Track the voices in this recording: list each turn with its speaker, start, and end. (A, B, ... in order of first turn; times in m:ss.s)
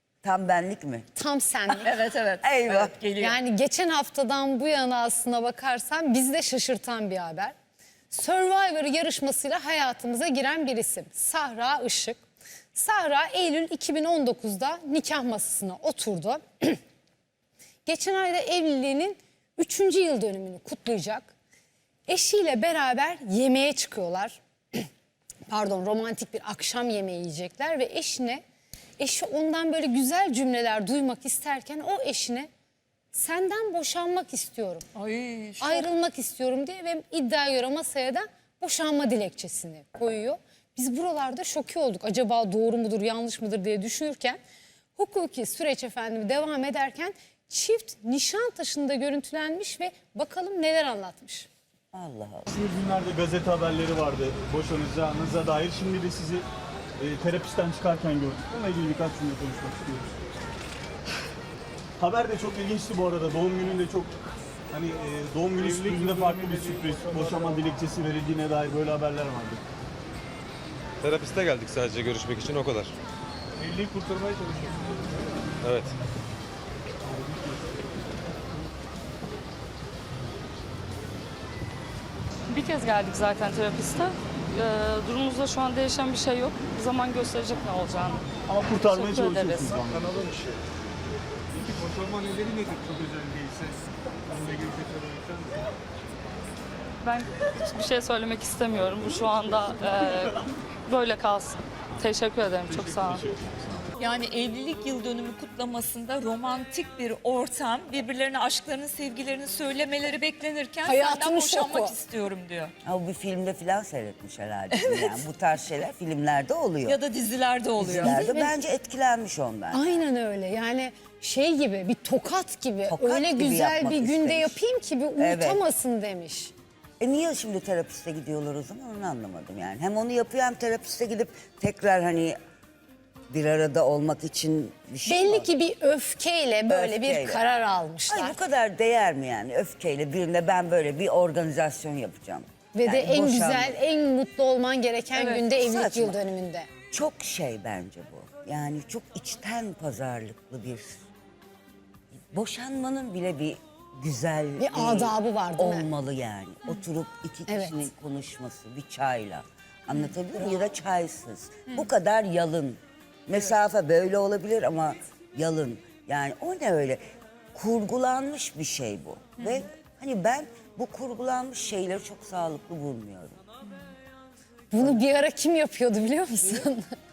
0:00.2-0:01.1 A
0:01.1-0:01.9 B
0:01.8-0:03.4 C
0:02.4-0:02.9 A
0:03.2-0:07.5 B
0:08.1-0:12.2 B
0:12.7-0:16.8 B
0:17.8-0:21.3 B
0:22.1-0:24.9 B
0:25.5-0:28.4 B
0:29.0-0:32.5 B
0:33.1-0:34.8 B
0:34.9-0:35.9 C
0:35.6-0:44.4 B
0:45.0-0:51.5 B
0:51.9-0:52.5 A
0:52.5-0:56.4 D
0:57.0-1:00.2 D
1:02.0-1:04.1 D
1:04.7-1:09.6 D
1:05.6-1:07.6 E
1:11.0-1:12.9 F
1:13.6-1:15.2 E
1:15.6-1:15.9 F
1:17.2-1:17.5 E
1:22.5-1:29.9 G
1:28.5-1:30.3 D
1:30.0-1:30.6 E
1:31.5-1:35.6 E
1:37.0-1:43.2 G
1:42.7-1:43.8 D
1:44.0-1:52.7 C
1:50.8-1:52.0 B
1:52.8-1:57.0 A
1:54.7-1:55.2 C
1:56.8-1:58.3 C
1:57.8-2:00.0 A
1:58.0-1:58.5 B
1:59.7-2:06.5 B
2:02.9-2:04.6 A
2:05.2-2:05.6 A
2:07.0-2:12.4 A
2:13.3-2:15.5 A
2:15.0-2:18.4 B
2:16.7-2:17.4 A
2:18.1-2:23.8 A
2:22.7-2:26.7 B
2:25.3-2:26.2 A
2:26.9-2:31.0 A
2:32.3-2:47.0 A
2:34.6-2:35.9 B
2:37.5-2:37.8 B
2:47.5-2:53.4 A
2:49.4-2:49.6 C
2:54.7-2:56.9 B